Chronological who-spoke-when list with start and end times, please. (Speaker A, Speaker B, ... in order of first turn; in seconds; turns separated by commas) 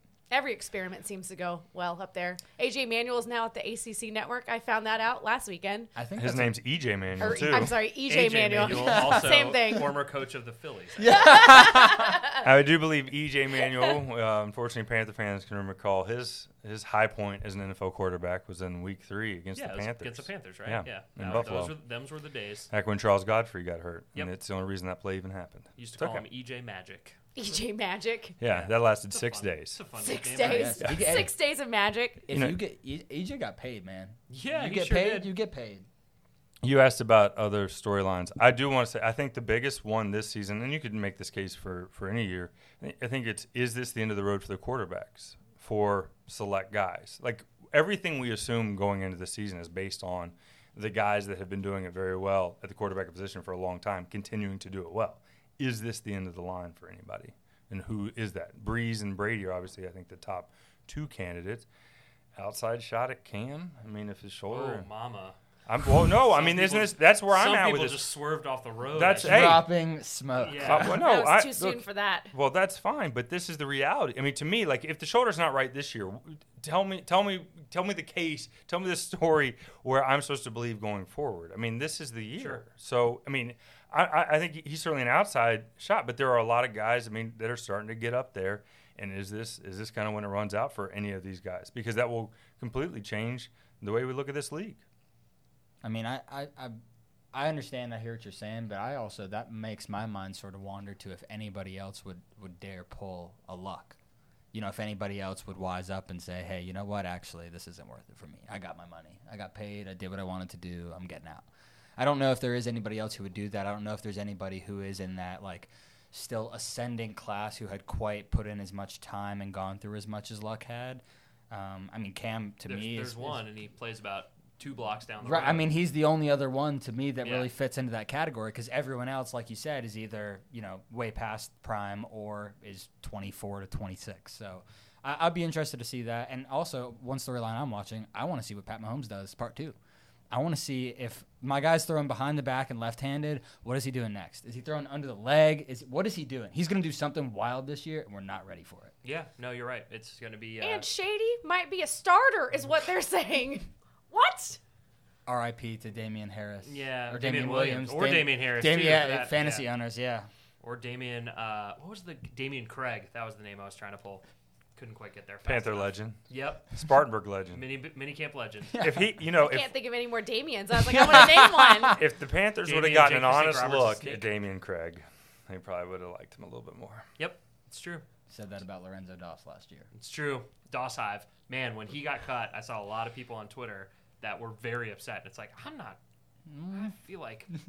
Speaker A: 0.3-5.9, Speaker B: 6.0-6.6, Speaker C: 6.2-7.8, Speaker B: 7.2-7.7, Speaker A: 7.2-9.9, Speaker D: 8.1-11.3, Speaker B: 8.6-9.4, Speaker B: 11.0-12.2, Speaker A: 11.1-12.4, Speaker C: 12.4-21.8, Speaker D: 19.5-22.7, Speaker C: 22.7-26.2, Speaker D: 25.8-27.2, Speaker A: 27.4-28.4, Speaker C: 28.4-29.8, Speaker D: 28.4-30.8, Speaker A: 30.0-32.2, Speaker B: 30.4-31.3, Speaker C: 30.8-31.2, Speaker B: 32.3-35.9, Speaker C: 32.3-32.6, Speaker D: 34.3-35.3, Speaker C: 36.6-61.7, Speaker C: 62.4-64.9, Speaker D: 64.5-65.4, Speaker C: 65.7-68.1, Speaker D: 66.2-69.6, Speaker C: 68.9-69.7, Speaker B: 69.2-71.0, Speaker D: 70.4-70.9, Speaker C: 70.6-94.8, Speaker A: 71.0-72.3, Speaker D: 82.4-82.6, Speaker B: 95.8-96.8, Speaker B: 97.3-104.0, Speaker B: 104.5-111.5, Speaker B: 112.0-123.4, Speaker D: 122.6-125.7, Speaker B: 125.2-139.8, Speaker D: 127.2-127.5, Speaker B: 140.3-148.9, Speaker D: 149.0-150.9, Speaker A: 150.6-154.6, Speaker B: 155.2-160.3, Speaker D: 156.6-159.7, Speaker D: 160.6-164.2, Speaker D: 164.8-166.7, Speaker C: 165.4-166.2, Speaker C: 166.7-167.6, Speaker D: 167.5-168.9, Speaker B: 168.7-169.2, Speaker C: 168.8-169.7, Speaker A: 169.3-172.0, Speaker C: 170.9-177.1, Speaker B: 171.3-171.9, Speaker D: 172.6-174.3, Speaker D: 177.2-178.0, Speaker B: 178.3-179.9, Speaker D: 179.9-186.0, Speaker B: 186.5-186.9, Speaker D: 186.7-187.5